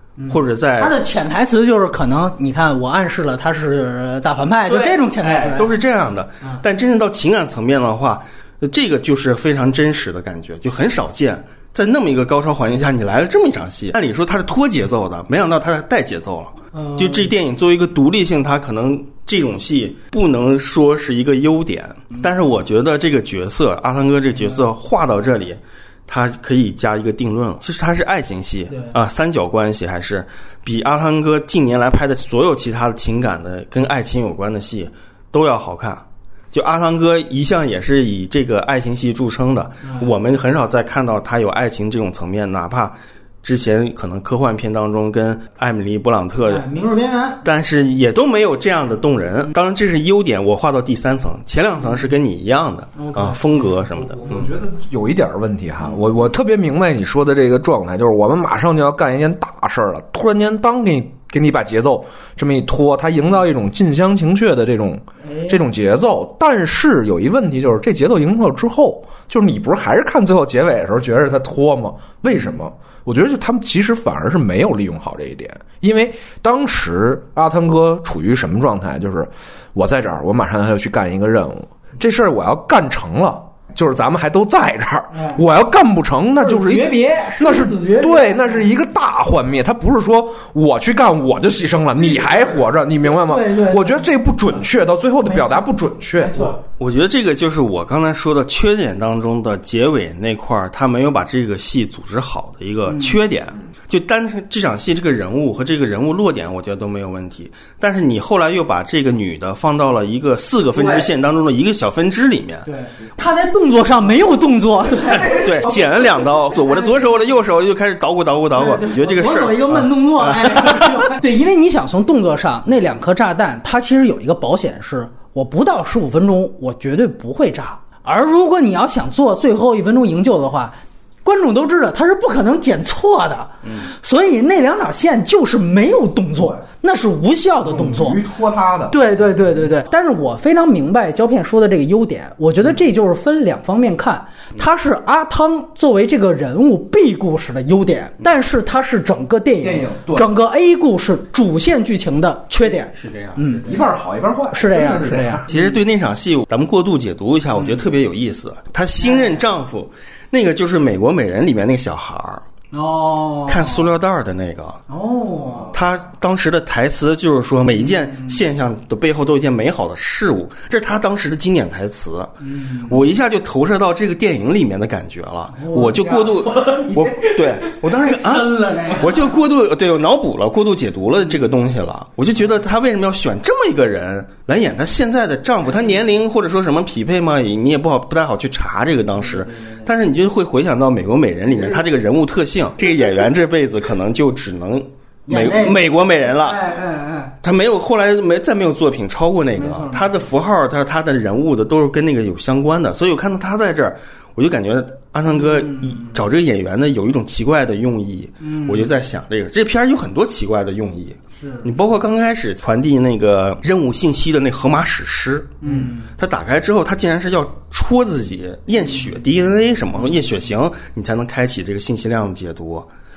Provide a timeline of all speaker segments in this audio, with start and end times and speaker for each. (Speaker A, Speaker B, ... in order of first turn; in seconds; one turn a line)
Speaker A: 0.2-5.7
Speaker B: 0.3-0.9
Speaker B: 4.7-46.6
Speaker A: 16.7-17.3
Speaker A: 39.8-40.1
Speaker A: 46.4-47.4
Speaker B: 47.4-54.5
Speaker A: 53.0-53.4
Speaker C: 54.0-96.5
Speaker A: 65.3-65.5
Speaker A: 85.1-85.4
Speaker A: 86.4-88.7
Speaker A: 92.0-94.1
Speaker A: 95.2-96.6
Speaker B: 96.8-112.7
Speaker A: 102.9-103.2
Speaker A: 110.8-111.0
Speaker A: 112.7-115.5
Speaker B: 115.2-121.1
Speaker A: 118.5-138.2
Speaker C: 137.7-139.0
Speaker A: 138.9-153.8
Speaker C: 149.6-150.3
Speaker B: 152.8-153.6
Speaker C: 153.6-155.4
Speaker A: 154.5-155.6
Speaker B: 155.5-162.4
Speaker A: 157.5-157.8
Speaker A: 159.0-159.4
Speaker A: 162.7-163.9
Speaker B: 163.5-164.8
Speaker A: 164.9-165.7
Speaker B: 165.7-196.6
Speaker A: 167.8-168.3
Speaker A: 172.4-173.0
Speaker A: 175.5-179.3
Speaker A: 189.4-189.8
Speaker A: 195.3-197.3
Speaker B: 197.4-222.9
Speaker A: 199.6-200.2
Speaker A: 205.3-206.2
Speaker A: 208.4-208.9
Speaker A: 211.4-211.7
Speaker A: 215.6-216.1